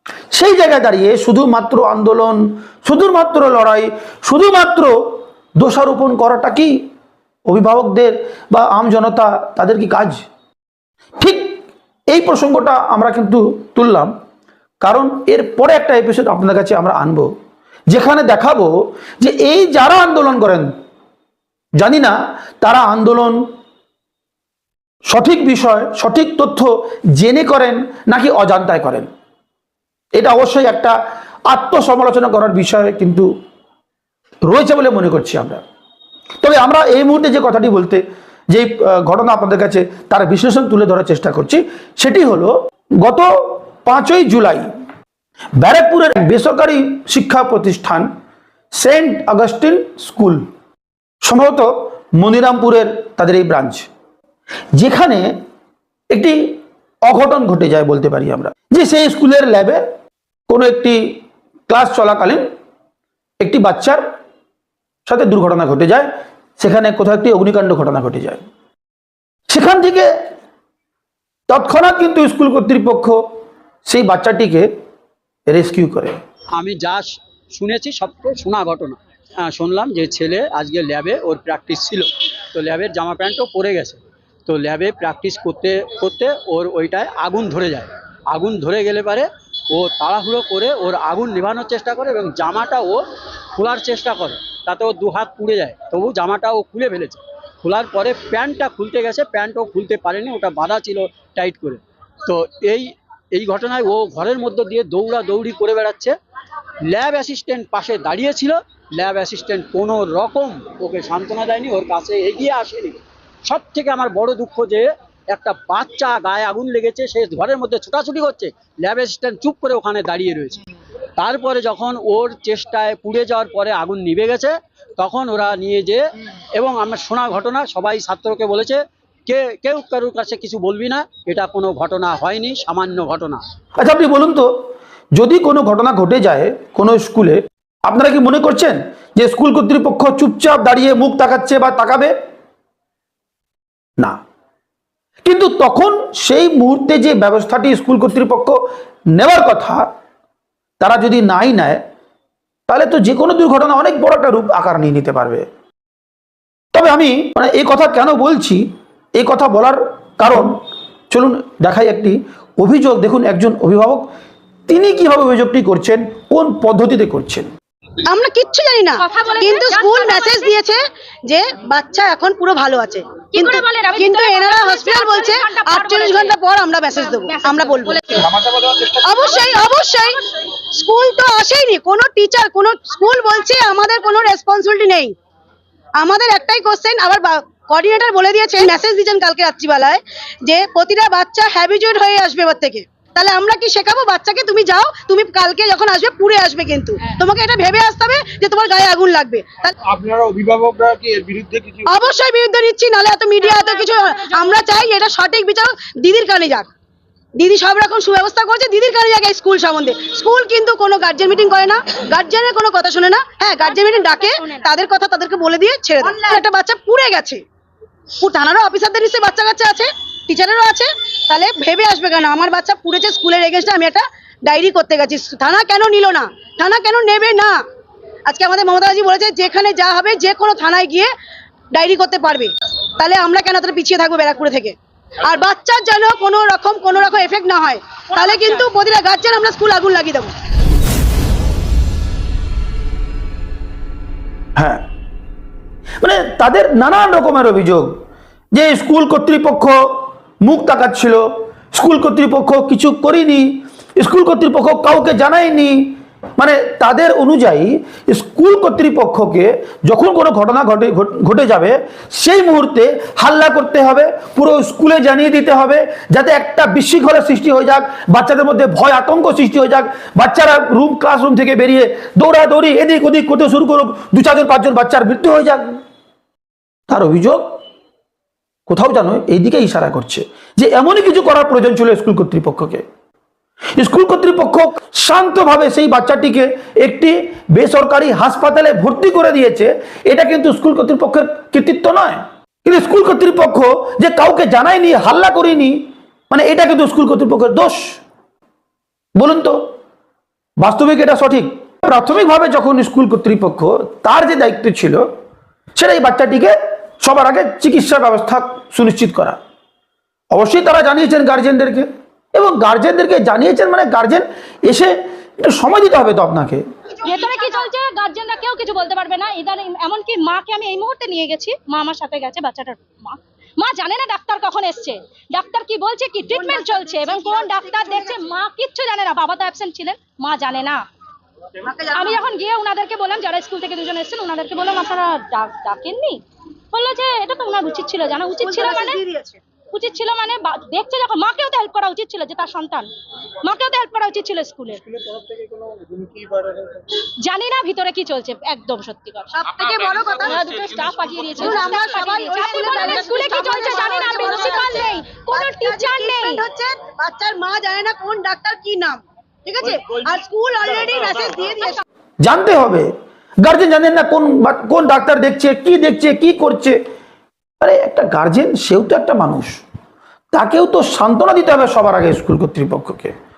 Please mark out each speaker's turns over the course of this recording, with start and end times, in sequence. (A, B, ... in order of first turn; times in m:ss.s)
0:00.3-0:06.9 A
0:07.5-0:10.2 A
0:11.2-0:14.1 A
0:14.8-0:17.3 A
0:17.9-0:20.7 A
0:21.8-0:23.4 A
0:25.1-0:29.1 A
0:30.2-0:31.0 A
0:31.5-0:33.3 A
0:34.5-0:35.6 A
0:36.4-0:44.7 A
0:45.6-0:48.1 A
0:48.8-0:50.5 A
0:51.2-0:53.9 A
0:54.8-0:55.4 A
0:56.1-0:59.8 A
1:00.5-1:02.5 A
1:03.4-1:04.0 A
1:05.1-1:08.4 A
1:09.5-1:10.1 A
1:11.5-1:13.2 A
1:13.9-1:14.7 A
1:15.5-1:16.2 A
1:16.5-1:33.0 B
1:33.6-1:46.2 B
1:46.9-2:00.6 B
2:01.2-2:06.0 B
2:06.5-2:13.4 B
2:13.8-2:22.1 A
2:25.2-2:28.6 A
2:29.1-2:29.9 A
2:30.8-2:31.8 A
2:32.7-2:35.5 A
2:36.7-2:44.1 A
2:44.7-2:47.5 A
2:48.0-2:58.2 C
2:49.0-2:50.6 D
2:53.3-2:56.4 D
2:56.9-2:58.3 D
2:58.3-2:59.0 E
2:59.0-3:00.2 C
3:00.7-3:05.2 C
3:06.0-3:19.7 C
3:19.8-3:22.0 E
3:21.9-3:26.7 C
3:23.4-3:24.7 D
3:27.4-3:37.4 C
3:33.6-3:34.7 D
3:36.0-3:36.4 D
3:38.2-3:47.6 C
3:48.3-3:51.1 C
3:51.7-4:00.3 C
3:58.1-3:58.7 D
4:04.6-4:04.8 A
4:06.0-4:08.0 A
4:08.5-4:35.8 A
4:36.9-4:37.6 A
4:38.7-4:42.8 A
4:43.8-4:58.0 A
4:59.2-4:59.7 A
5:00.6-5:05.1 A
5:05.8-5:09.4 A
5:10.3-5:16.6 A
5:17.0-5:30.8 D
5:26.3-5:28.1 C
5:31.6-5:32.2 C
5:31.9-5:39.0 D
5:38.4-5:39.4 C
5:39.7-5:42.9 D
5:43.4-5:44.8 D
5:44.8-5:46.8 E
5:47.2-5:49.6 D
5:49.4-5:50.6 C
5:50.2-5:56.4 D
5:51.4-6:01.8 C
6:02.2-6:06.8 A
6:07.6-6:09.6 A
6:10.3-6:13.1 A